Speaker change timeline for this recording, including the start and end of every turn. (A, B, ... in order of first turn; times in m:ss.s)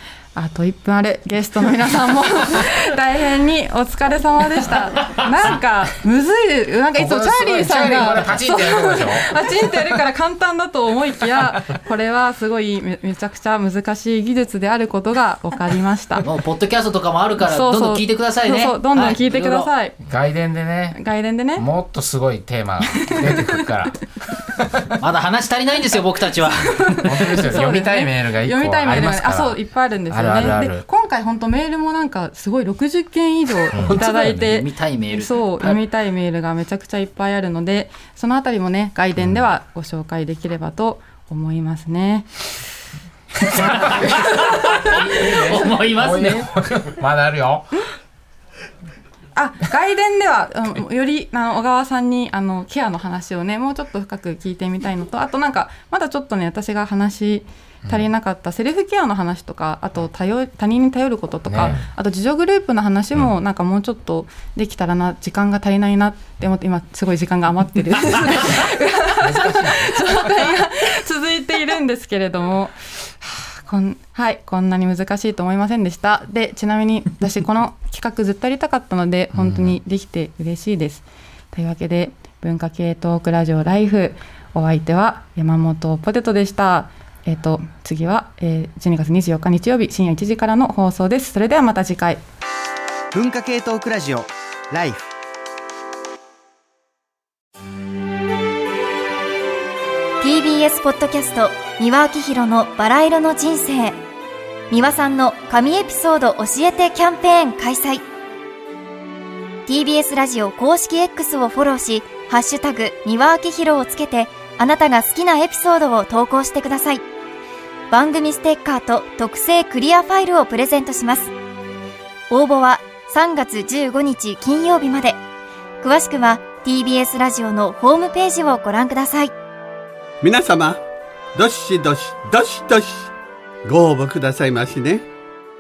0:00.4-0:16.2 A
0:07.0-0:09.2 B
0:16.2-0:19.7 C
0:17.4-0:20.0 A
0:20.1-0:21.0 B
0:20.9-0:21.7 A
0:21.6-0:23.9 B
0:22.9-0:23.6 A
0:25.0-0:27.5 C
0:26.7-0:42.3 A
0:27.1-0:29.6 B
0:30.1-0:30.8 B
0:33.8-0:35.8 C
0:43.5-0:46.5 C
0:45.3-0:47.6 B
0:49.4-1:32.2 A
1:01.5-1:01.8 B
1:19.3-1:19.7 C
1:33.1-1:35.1 D
1:40.2-1:44.0 E
1:44.7-1:48.0 E
1:49.7-1:57.0 E
1:57.9-2:01.3 E
2:02.3-2:05.2 E
2:05.8-2:09.3 E
2:10.2-2:10.8 F
2:11.4-2:13.1 F
2:13.7-2:15.0 F